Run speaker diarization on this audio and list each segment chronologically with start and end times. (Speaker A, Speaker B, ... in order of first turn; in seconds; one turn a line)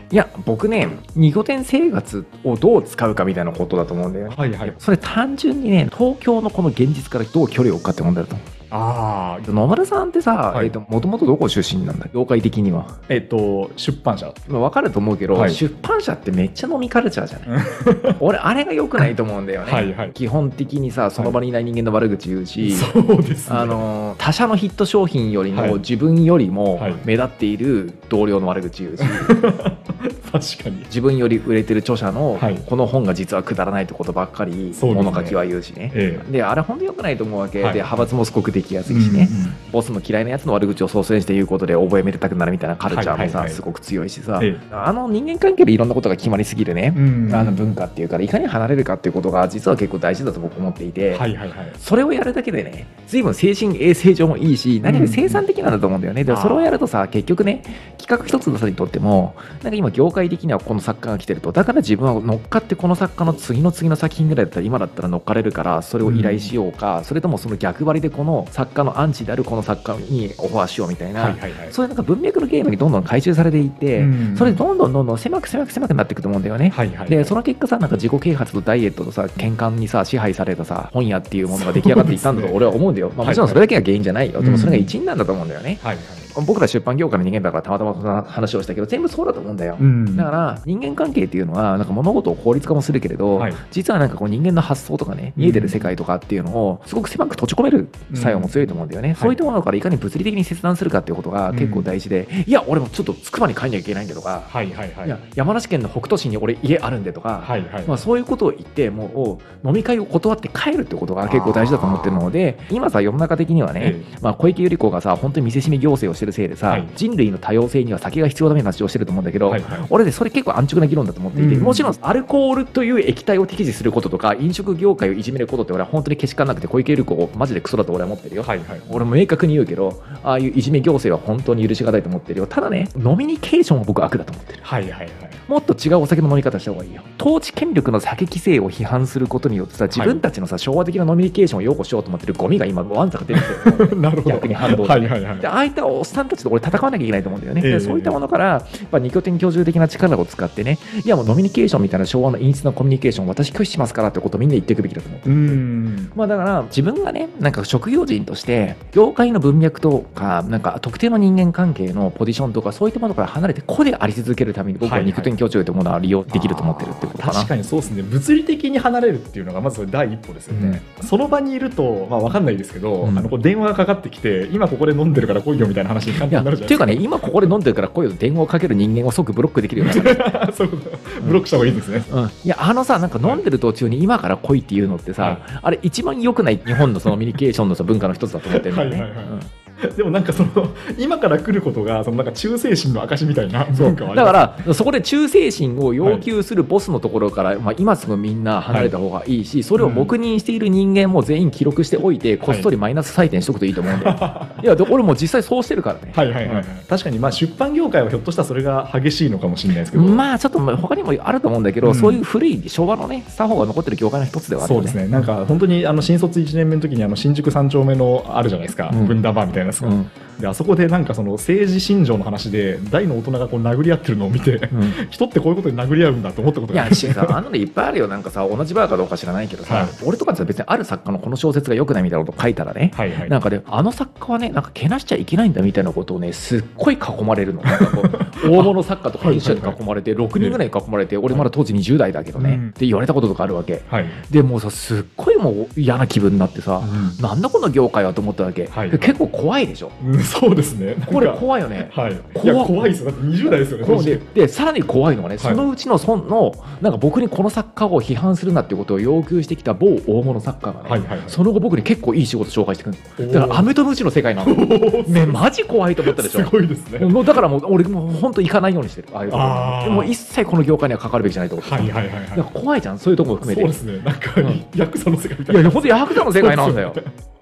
Speaker A: 0.1-8.5
Speaker B: 4.3-4.8
Speaker B: 8.7-9.5
Speaker A: 9.4-12.9
Speaker B: 13.1-14.4
Speaker A: 14.5-17.5
Speaker B: 15.3-15.6
Speaker B: 17.5-18.2
Speaker A: 18.2-22.9
Speaker B: 19.6-20.1
Speaker B: 22.6-23.8
Speaker A: 23.5-29.4
Speaker B: 25.5-25.8
Speaker B: 26.8-27.0
Speaker B: 29.0-30.9
Speaker A: 30.9-104.5
Speaker B: 32.4-32.7
Speaker B: 34.8-35.4
Speaker B: 35.9-36.2
Speaker B: 37.6-38.1
Speaker B: 38.9-39.6
Speaker B: 42.9-43.6
Speaker B: 46.9-47.7
Speaker B: 51.1-51.8
Speaker B: 54.8-55.4
Speaker B: 56.3-56.8
Speaker B: 66.0-66.5
Speaker B: 71.2-71.8
Speaker B: 74.0-74.6
Speaker B: 76.7-77.3
Speaker B: 81.5-82.6
Speaker B: 83.2-83.6
Speaker B: 84.4-84.9
Speaker B: 85.8-86.3
Speaker B: 89.8-90.3
Speaker B: 93.3-93.6
Speaker B: 95.3-95.9
Speaker B: 98.1-99.4
Speaker B: 101.5-101.9
Speaker B: 104.5-105.2
Speaker A: 105.0-134.6
Speaker B: 107.4-108.0
Speaker B: 111.2-112.2
Speaker B: 113.8-114.1
Speaker B: 119.5-119.9
Speaker B: 121.3-121.9
Speaker B: 128.4-129.0
Speaker B: 134.6-135.4
Speaker A: 135.5-155.6
Speaker B: 139.9-140.2
Speaker B: 143.3-145.5
Speaker B: 147.6-148.2
Speaker B: 155.2-156.1
Speaker A: 156.1-167.5
Speaker B: 164.8-165.3
Speaker B: 166.3-177.4
Speaker A: 170.5-170.8
Speaker A: 173.0-173.3
Speaker A: 176.1-180.3
Speaker B: 179.8-182.1
Speaker A: 181.2-189.5
Speaker B: 185.2-185.4
Speaker B: 186.7-187.1
Speaker B: 188.4-194.7
Speaker A: 193.7-206.7
Speaker B: 196.0-196.3
Speaker B: 198.7-198.9
Speaker B: 199.8-200.1
Speaker B: 202.4-202.7
Speaker B: 203.8-204.6
Speaker B: 206.1-210.3
Speaker A: 209.9-215.0
Speaker B: 211.8-212.2
Speaker B: 214.6-227.4
Speaker A: 218.9-219.2
Speaker A: 219.8-220.1
Speaker A: 226.7-249.9
Speaker B: 229.7-229.9
Speaker B: 232.9-233.3
Speaker B: 237.6-239.8
Speaker B: 242.4-242.7
Speaker B: 243.9-244.2
Speaker B: 246.8-247.2
Speaker B: 248.7-249.2
Speaker B: 250.0-254.3
Speaker A: 251.1-252.9
Speaker A: 253.5-273.7
Speaker B: 260.8-261.4
Speaker B: 263.2-263.7
Speaker B: 264.4-265.4
Speaker B: 266.0-267.4
Speaker B: 269.3-270.1
Speaker B: 271.6-272.5
Speaker B: 273.4-277.1
Speaker A: 275.5-277.0